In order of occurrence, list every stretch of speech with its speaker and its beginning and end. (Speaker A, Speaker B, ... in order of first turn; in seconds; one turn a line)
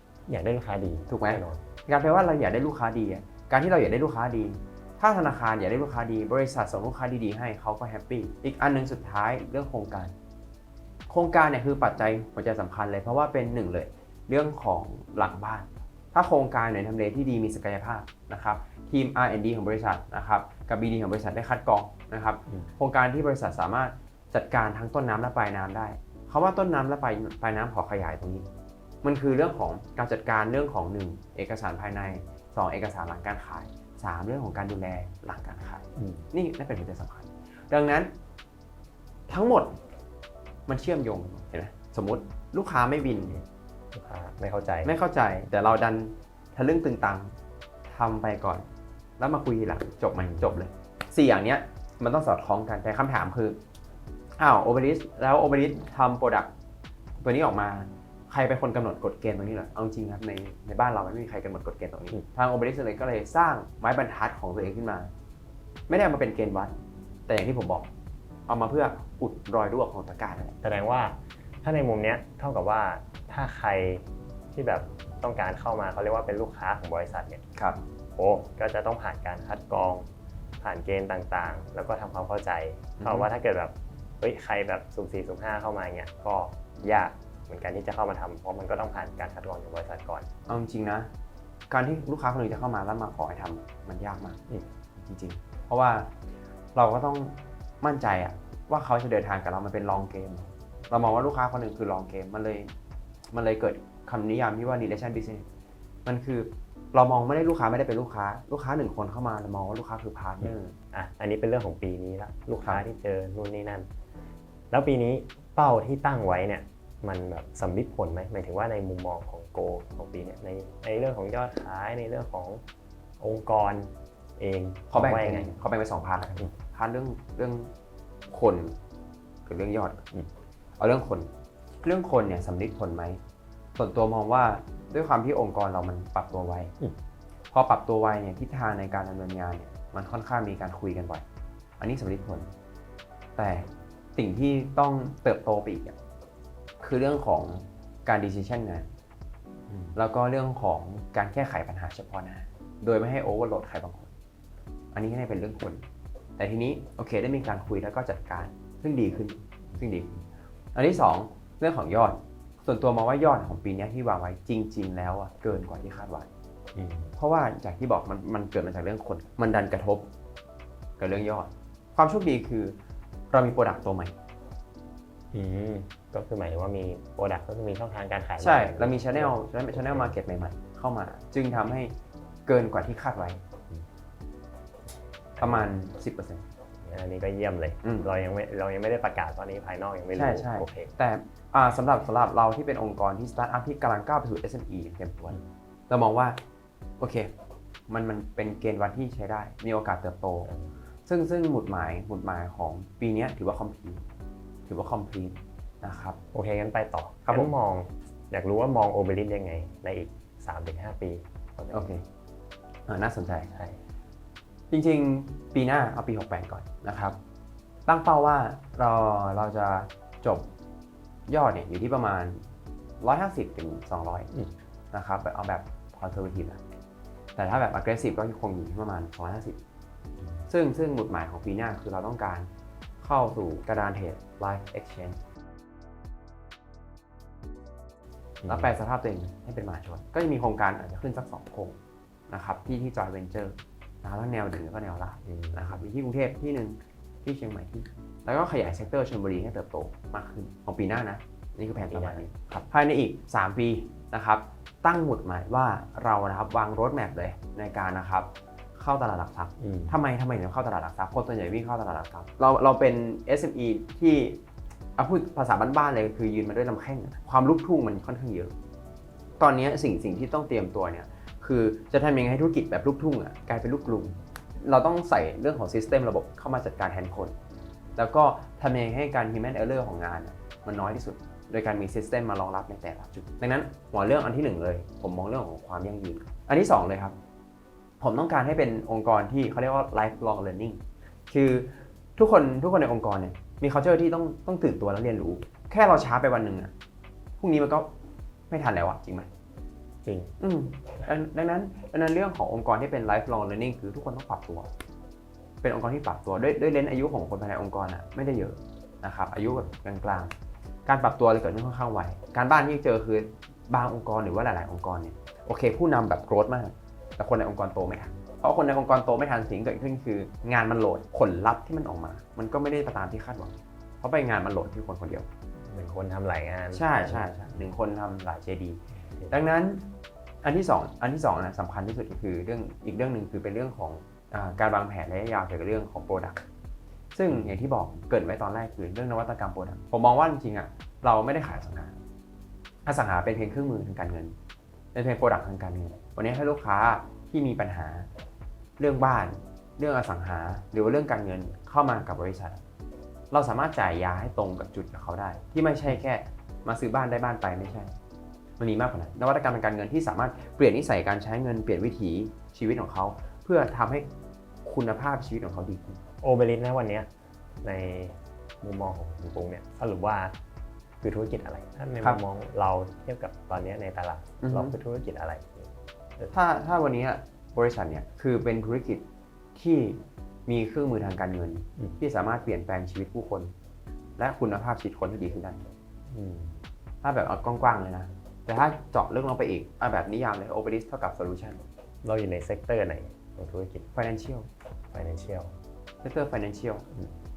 Speaker A: 0.3-1.6
Speaker B: 1.1-10.1
Speaker B: 11.1-28.4
Speaker B: 29.0-38.1
Speaker A: 36.0-36.3
Speaker B: 39.3-39.7
Speaker B: 40.7-43.4
Speaker A: 43.9-44.9
Speaker B: 44.8-47.3
Speaker B: 47.9-48.6
Speaker B: 49.2-53.6
Speaker B: 54.4-56.5
Speaker B: 57.2-65.1
Speaker B: 65.9-66.8
Speaker B: 67.3-67.9
Speaker B: 68.5-70.6
Speaker A: 70.6-77.4
Speaker A: 78.2-80.1
Speaker A: 80.6-90.3
Speaker B: 83.0-83.3
Speaker B: 90.5-91.1
Speaker B: 91.7-94.4
Speaker B: 95.0-96.1
Speaker B: 96.7-102.7
Speaker B: 103.3-105.5
Speaker B: 106.0-110.7
Speaker A: 110.4-113.9
Speaker A: 114.7-122.6
Speaker A: 123.2-125.6
Speaker B: 124.9-127.7
Speaker B: 128.3-128.8
Speaker B: 129.4-130.0
Speaker B: 130.8-131.3
Speaker B: 131.8-133.2
Speaker B: 133.8-136.7
Speaker B: 137.5-141.2
Speaker B: 141.8-142.5
Speaker B: 143.3-146.0
Speaker B: 146.8-148.9
Speaker A: 149.7-149.9
Speaker B: 149.9-154.1
Speaker B: 154.9-155.8
Speaker B: 156.4-160.2
Speaker B: 160.7-166.3
Speaker A: 166.7-167.1
Speaker B: 167.2-170.1
Speaker B: 171.0-172.8
Speaker B: 173.3-174.2
Speaker A: 175.3-180.1
Speaker B: 178.4-181.9
Speaker B: 182.5-183.4
Speaker A: 185.4-185.7
Speaker B: 185.4-186.4
Speaker A: 186.8-190.9
Speaker B: 187.8-188.1
Speaker B: 190.1-196.4
Speaker B: 197.0-197.3
Speaker B: 197.9-200.5
Speaker B: 201.1-204.0
Speaker B: 204.7-206.2
Speaker A: 206.3-211.9
Speaker B: 207.2-207.5
Speaker B: 211.7-212.0
Speaker B: 212.9-213.5
Speaker A: 213.5-213.8
Speaker B: 214.7-217.2
Speaker B: 217.8-220.5
Speaker B: 221.3-222.4
Speaker B: 223.0-224.3
Speaker B: 224.9-226.6
Speaker B: 227.3-229.6
Speaker B: 230.5-232.5
Speaker B: 233.0-235.2
Speaker A: 238.4-238.7
Speaker B: 238.4-241.8
Speaker B: 242.3-264.4
Speaker A: 245.2-245.8
Speaker A: 251.8-252.2
Speaker A: 259.6-260.0
Speaker B: 265.0-268.5
Speaker B: 269.4-277.3
Speaker B: 278.0-287.1
Speaker B: 288.0-296.7
Speaker B: 297.4-297.9
Speaker B: 298.5-299.3
Speaker A: 300.0-300.3
Speaker B: 300.4-304.7
Speaker B: 305.6-310.3
Speaker B: 310.9-325.3
Speaker A: 325.7-327.6
Speaker B: 326.7-329.9
Speaker B: 330.4-336.4
Speaker B: 337.1-342.0
Speaker B: 342.9-344.4
Speaker B: 344.9-348.1
Speaker B: 348.8-352.6
Speaker B: 353.3-357.9
Speaker B: 358.6-364.1
Speaker B: 364.6-366.0
Speaker A: 366.2-367.1
Speaker A: 367.6-370.3
Speaker A: 371.0-376.3
Speaker B: 374.4-374.7
Speaker B: 376.3-379.0
Speaker B: 379.5-383.5
Speaker B: 384.2-385.6
Speaker A: 386.1-386.6
Speaker B: 387.0-391.6
Speaker A: 392.0-393.9
Speaker B: 393.9-394.5
Speaker A: 394.9-395.5
Speaker B: 396.0-396.9